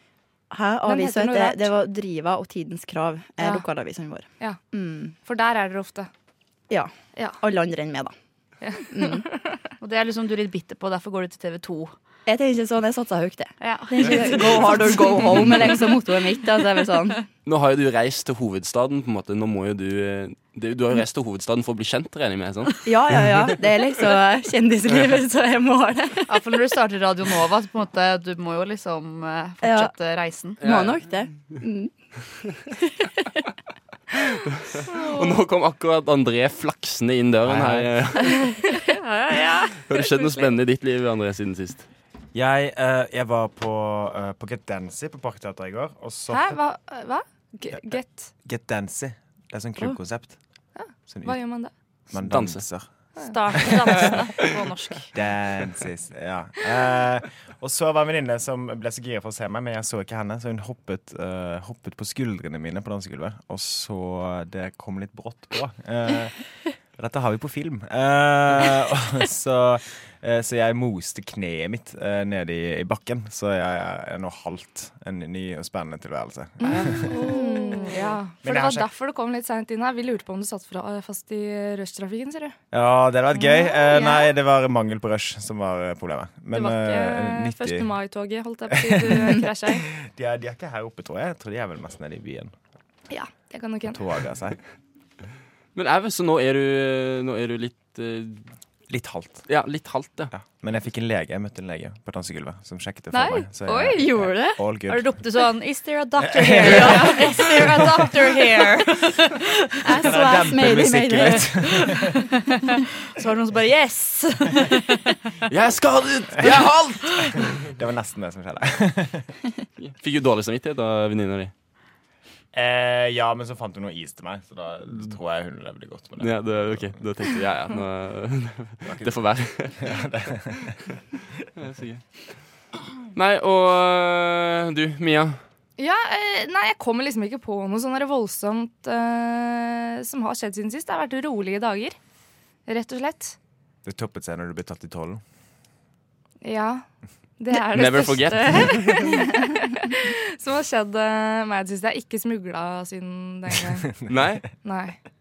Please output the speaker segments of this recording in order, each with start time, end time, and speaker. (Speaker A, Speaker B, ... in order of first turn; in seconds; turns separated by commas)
Speaker A: 0.5-5.1, Speaker B: 0.8-1.6, Speaker B: 5.2-6.1, Speaker A: 6.7-8.1, Speaker B: 8.6-9.5, Speaker A: 8.9-9.2, Speaker C: 9.8-11.9, Speaker A: 12.2-17.2, Speaker C: 13.6-15.0, Speaker D: 17.4-22.7, Speaker A: 22.8-26.4, Speaker C: 26.3-30.6, Speaker A: 29.6-29.9, Speaker A: 30.6-31.9, Speaker D: 30.6-31.0, Speaker D: 34.6-38.4, Speaker E: 37.4-37.9, Speaker B: 38.4-38.8, Speaker C: 38.6-40.5, Speaker D: 39.9-41.9, Speaker E: 42.3-46.5, Speaker B: 46.3-48.3, Speaker E: 47.7-50.4, Speaker B: 50.7-51.7, Speaker E: 51.1-51.4, Speaker E: 52.1-52.9, Speaker D: 52.2-52.6, Speaker C: 53.2-55.1, Speaker E: 55.1-66.4, Speaker E: 66.9-77.2, Speaker B: 76.7-82.5, Speaker A: 77.1-78.1, Speaker C: 77.2-77.6, Speaker E: 78.4-78.9, Speaker E: 82.7-87.9, Speaker B: 83.3-84.2, Speaker B: 86.5-89.9, Speaker E: 88.7-92.5, Speaker B: 93.1-94.0, Speaker E: 93.9-94.6, Speaker D: 95.7-98.4, Speaker E: 98.9-99.5, Speaker D: 99.5-100.3, Speaker E: 100.3-105.2, Speaker B: 103.1-104.3, Speaker C: 104.0-109.4, Speaker E: 106.2-108.2, Speaker A: 109.8-111.7, Speaker E: 109.9-112.3, Speaker C: 112.1-115.2, Speaker D: 115.5-117.4, Speaker C: 117.0-117.3, Speaker E: 117.3-119.3, Speaker D: 119.8-121.5, Speaker E: 122.5-127.0, Speaker D: 126.2-129.8, Speaker E: 128.8-129.2, Speaker E: 129.8-130.8, Speaker D: 131.6-132.0, Speaker D: 133.1-135.4, Speaker B: 135.8-141.9, Speaker B: 142.7-143.3, Speaker E: 143.8-145.2, Speaker B: 146.4-146.8, Speaker B: 147.4-153.9, Speaker D: 147.7-149.2, Speaker E: 153.7-154.4, Speaker D: 154.1-154.5, Speaker B: 154.6-155.0